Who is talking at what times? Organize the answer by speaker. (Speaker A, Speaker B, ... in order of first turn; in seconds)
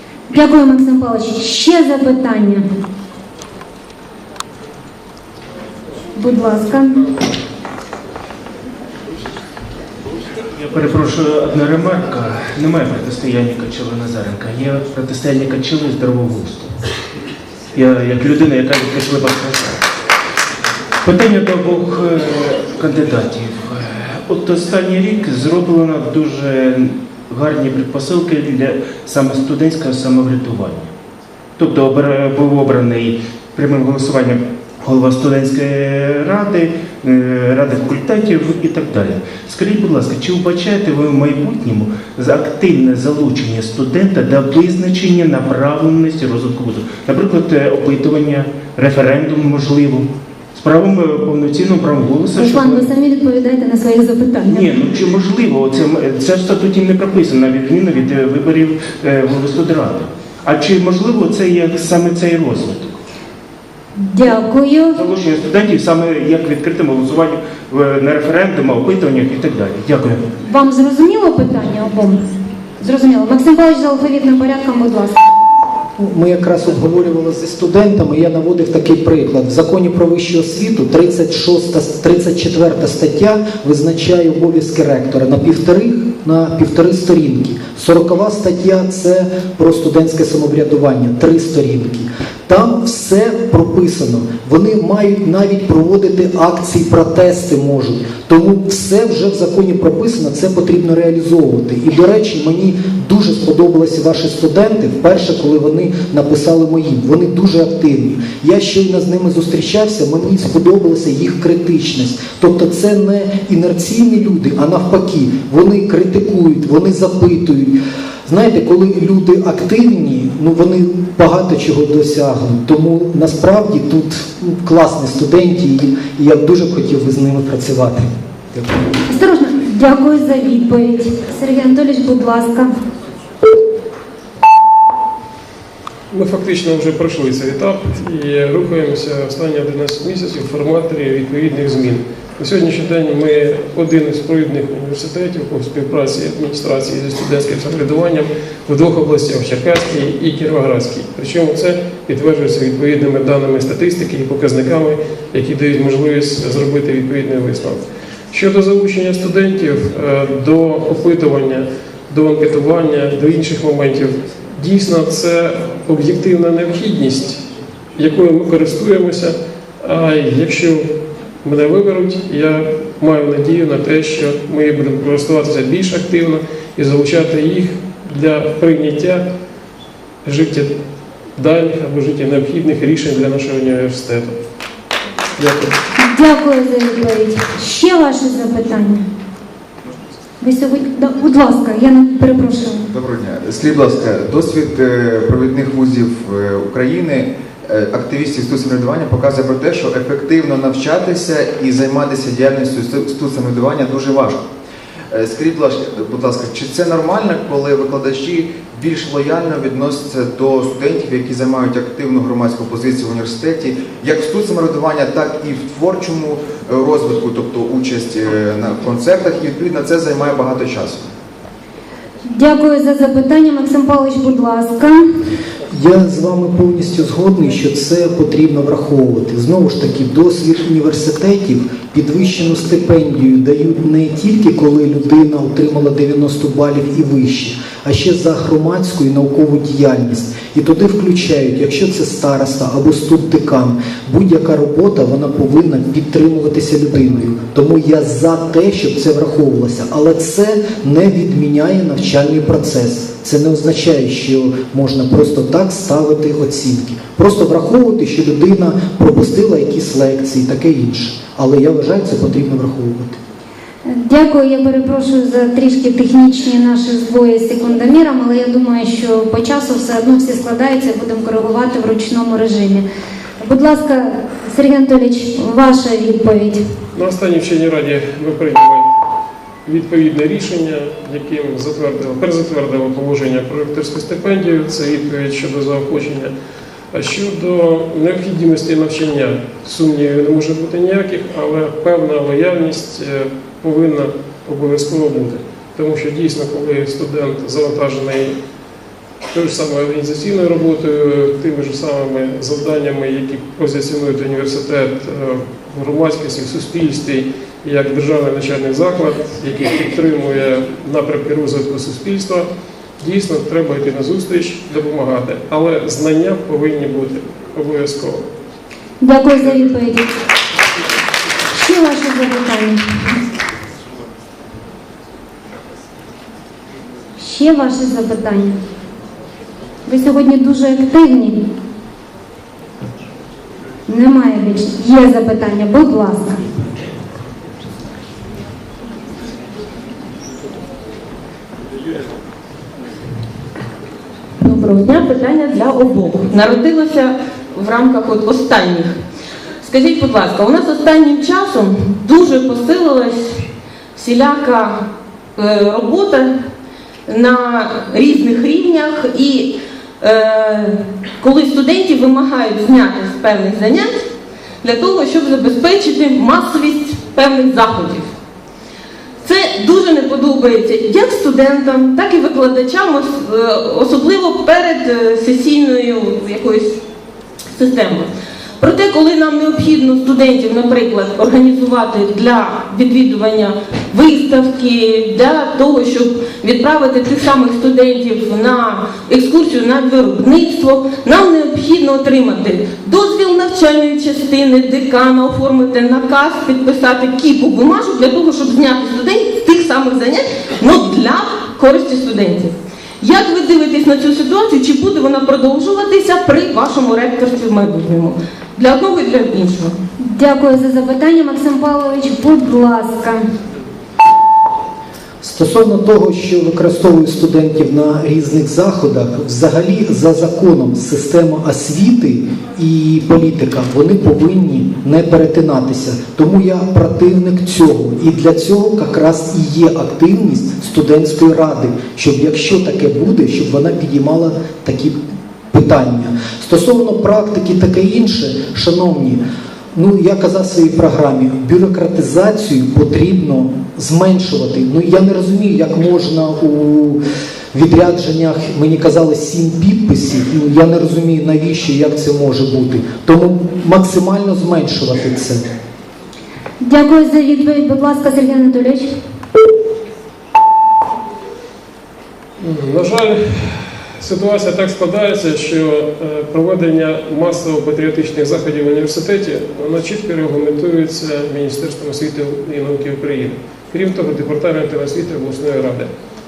Speaker A: 0.3-2.6, 6.2-7.1, 52.3-54.7, 64.0-65.0, 70.5-72.2, 72.8-75.2, 129.1-132.7, 186.0-189.0, 190.4-192.8, 222.3-225.0, 263.9-272.8, 273.4-276.6, 319.0-320.1, 321.5-323.1, 327.2-328.6, 329.9-331.5, 333.9-336.4, 410.0-413.2, 456.6-458.9
Speaker B: 10.5-16.8, 17.7-19.8, 21.0-30.9, 31.6-52.9, 54.5-63.0, 64.9-70.3
Speaker C: 76.0-128.1, 225.7-263.2, 415.2-435.0, 435.5-439.2, 439.7-447.0, 447.5-455.4
Speaker D: 136.1-167.4, 168.0-170.9, 171.4-179.2, 180.2-180.7, 181.4-184.4, 276.9-278.9, 279.6-286.3, 286.9-298.3, 299.3-312.5, 313.0-318.2, 462.4-475.9
Speaker E: 192.9-204.4, 205.1-221.1
Speaker F: 344.4-349.0, 349.6-356.3, 357.1-364.1, 364.6-368.1, 369.2-376.8, 377.5-378.1, 378.6-409.8